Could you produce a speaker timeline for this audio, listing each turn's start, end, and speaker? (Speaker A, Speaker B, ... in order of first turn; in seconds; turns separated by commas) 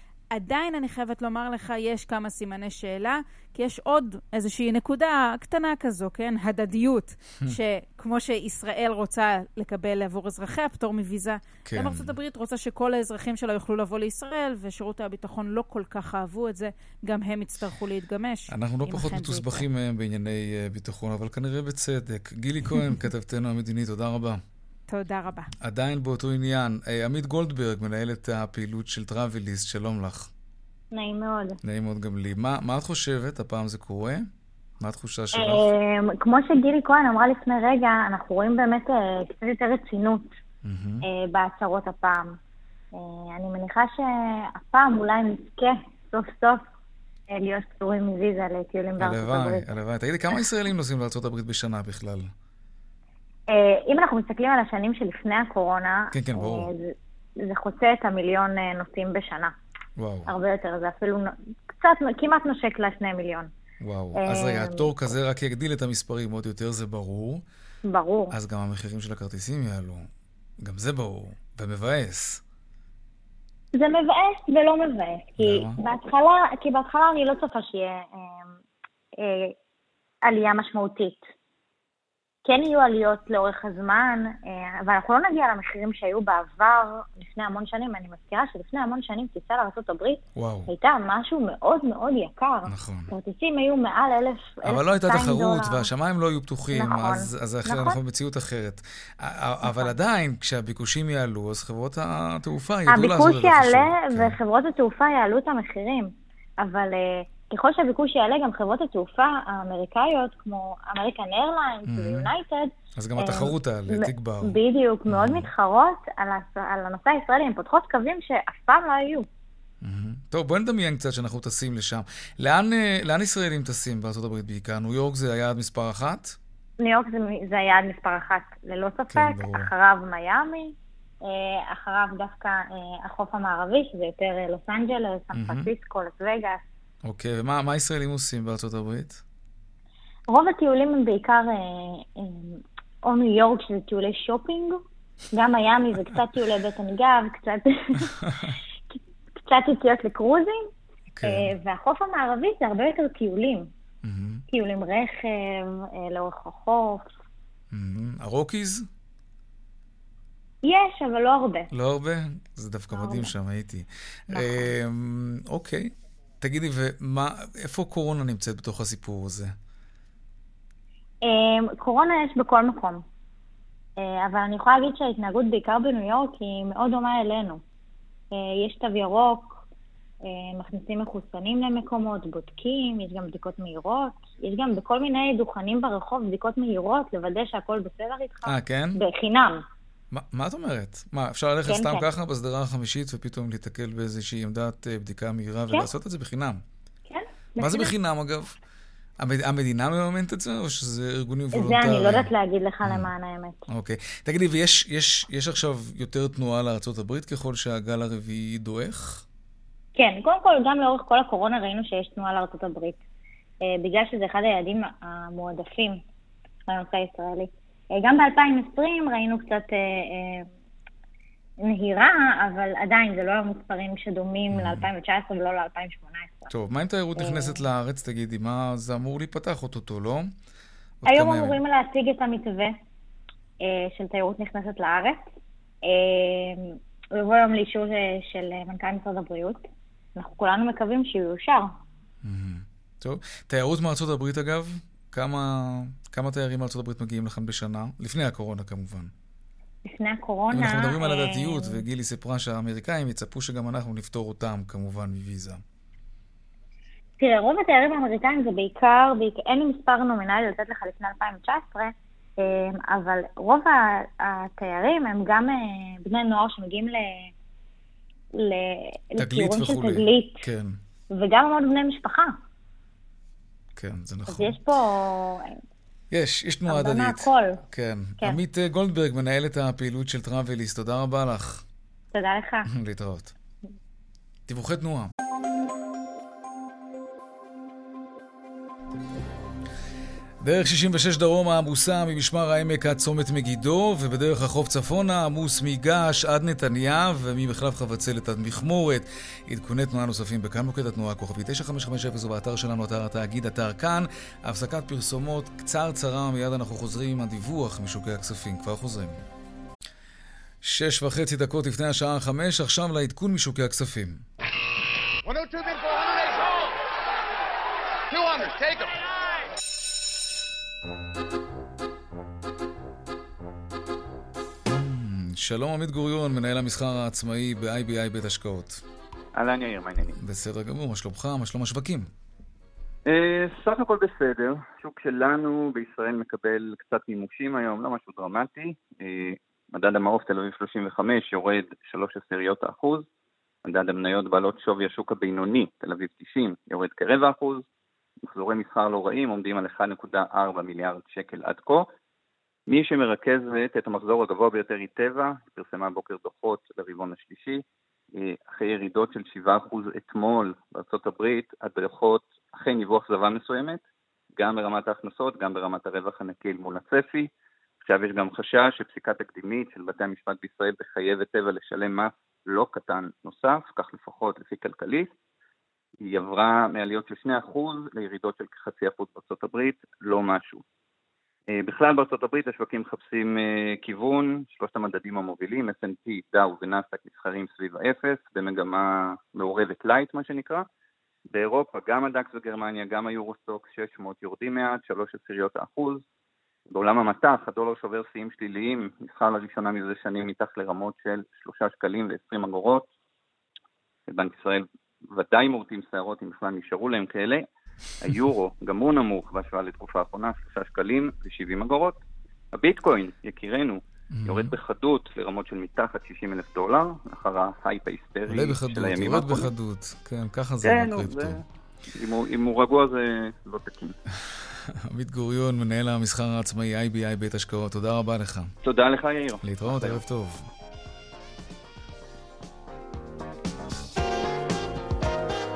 Speaker A: 0.3-19.6, Speaker B: 11.6-12.2, Speaker B: 18.5-24.4, Speaker A: 24.9-25.5, Speaker B: 25.6-30.3, Speaker C: 30.9-31.6, Speaker B: 31.6-34.3, Speaker B: 34.8-35.6, Speaker C: 35.3-40.3, Speaker B: 40.6-41.0, Speaker C: 41.0-42.4, Speaker C: 42.9-46.6, Speaker C: 47.3-49.6, Speaker B: 49.0-52.3, Speaker C: 53.5-59.5, Speaker B: 56.1-56.7, Speaker B: 60.0-60.3, Speaker C: 60.3-63.5, Speaker B: 63.8-67.4, Speaker C: 64.2-64.9, Speaker C: 67.8-68.3, Speaker B: 68.3-70.1, Speaker B: 70.6-72.4, Speaker C: 73.7-78.5, Speaker B: 75.4-75.8, Speaker C: 79.2-79.5, Speaker C: 80.2-81.2, Speaker C: 82.4-95.9, Speaker B: 90.3-90.7, Speaker B: 92.7-93.1, Speaker B: 94.6-104.4, Speaker C: 96.7-98.0, Speaker C: 99.6-99.9, Speaker C: 102.9-119.2, Speaker B: 111.9-112.3, Speaker B: 113.0-115.5, Speaker B: 119.8-126.4, Speaker C: 126.8-136.6, Speaker B: 129.1-129.7, Speaker B: 135.3-135.7, Speaker B: 137.0-139.2, Speaker C: 140.3-144.8, Speaker C: 145.3-148.2, Speaker C: 148.9-150.6, Speaker B: 151.1-151.5, Speaker C: 151.2-153.7, Speaker B: 154.0-154.4, Speaker C: 154.5-157.1, Speaker B: 157.7-158.8, Speaker C: 160.6-161.7, Speaker B: 161.7-169.5, Speaker C: 162.9-163.3, Speaker C: 164.3-164.7, Speaker C: 171.2-173.0, Speaker C: 174.0-177.6, Speaker C: 178.3-179.6, Speaker C: 180.2-189.6, Speaker B: 188.4-189.0, Speaker B: 190.1-196.6, Speaker C: 191.7-192.0, Speaker C: 197.1-197.9, Speaker B: 197.6-198.5, Speaker B: 199.2-202.3, Speaker C: 201.5-203.6, Speaker B: 203.7-209.2, Speaker C: 209.9-213.0, Speaker C: 213.6-216.0, Speaker C: 216.7-220.5, Speaker C: 221.6-226.5, Speaker B: 224.5-224.9, Speaker B: 226.5-230.3, Speaker C: 227.2-227.6, Speaker B: 231.0-231.6, Speaker C: 231.1-232.8, Speaker C: 233.6-235.2, Speaker C: 235.8-239.6, Speaker C: 240.2-241.7, Speaker B: 242.2-249.1, Speaker C: 249.8-251.8, Speaker B: 250.5-255.6, Speaker C: 257.2-267.3, Speaker C: 268.3-270.4, Speaker B: 269.2-270.8, Speaker C: 271.1-272.4, Speaker B: 273.8-274.6, Speaker C: 274.3-275.6, Speaker B: 276.1-281.6, Speaker C: 276.7-277.6, Speaker C: 282.1-282.7, Speaker B: 282.7-283.3, Speaker B: 284.5-285.1, Speaker B: 290.4-309.2, Speaker B: 310.6-314.2, Speaker B: 324.6-328.8, Speaker D: 329.3-330.1, Speaker B: 330.2-332.1, Speaker D: 333.1-343.1, Speaker D: 343.6-347.6, Speaker D: 348.2-351.9, Speaker D: 352.7-363.8, Speaker D: 364.4-367.3, Speaker D: 367.8-375.1, Speaker D: 376.0-380.6, Speaker D: 381.5-390.6, Speaker D: 391.3-396.0, Speaker D: 396.7-402.9, Speaker D: 404.1-407.4, Speaker D: 408.0-412.0, Speaker D: 412.5-419.5, Speaker B: 414.1-414.5, Speaker B: 418.3-421.4, Speaker D: 420.6-421.4, Speaker D: 421.9-423.9, Speaker B: 424.7-428.5, Speaker D: 428.6-430.0, Speaker B: 429.4-430.5